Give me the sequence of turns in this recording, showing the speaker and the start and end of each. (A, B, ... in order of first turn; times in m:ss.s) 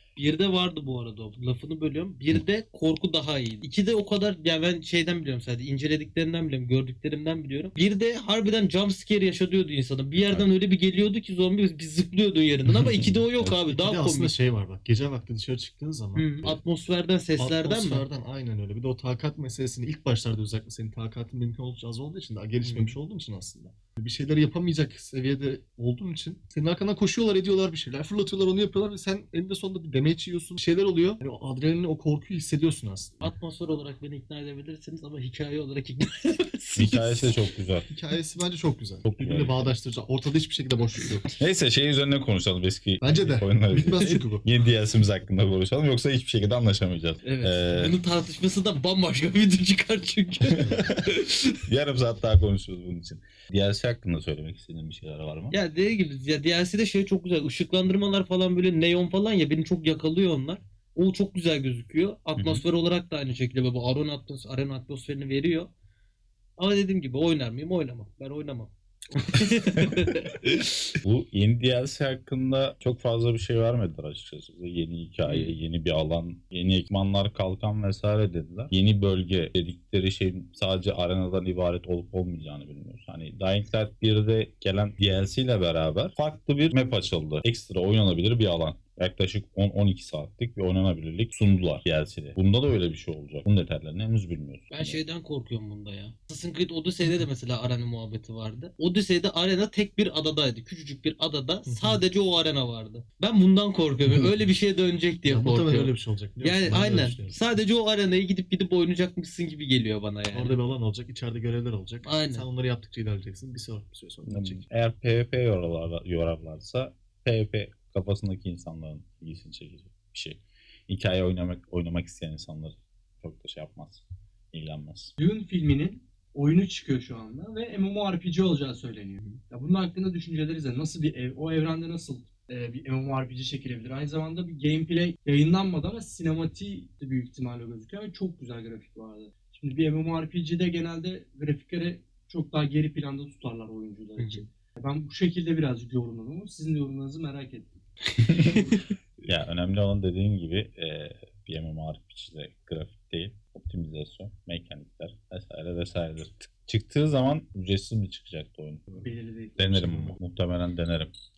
0:00.2-0:14.3 A
0:13.2-0:13.6 B
0:13.7-0:16.6 C
0:16.2-0:18.1 A
0:17.4-0:33.2 C
0:22.6-0:23.0 A
0:33.2-0:37.4 A
0:36.8-0:37.9 B
0:37.9-0:41.3 C
0:39.0-0:39.7 B
0:41.4-0:48.0 B
0:43.0-0:44.5 C
0:44.0-0:44.2 A
0:47.2-0:51.4 A
0:50.6-0:55.6 B
0:55.5-1:05.7 A
1:02.4-1:02.6 B
1:06.6-1:10.6 A
1:11.0-1:35.0 B
1:15.2-1:15.6 A
1:34.7-1:50.6 A
1:41.7-1:42.0 C
1:45.3-1:47.4 C
1:50.3-1:54.7 C
1:52.0-1:52.5 A
1:54.3-2:05.1 B
2:05.2-2:27.7 D
2:24.2-2:24.4 A
2:28.2-2:28.6 B
2:28.3-2:28.8 D
2:29.3-2:39.0 B
2:39.0-2:40.0 D
2:39.6-2:41.1 B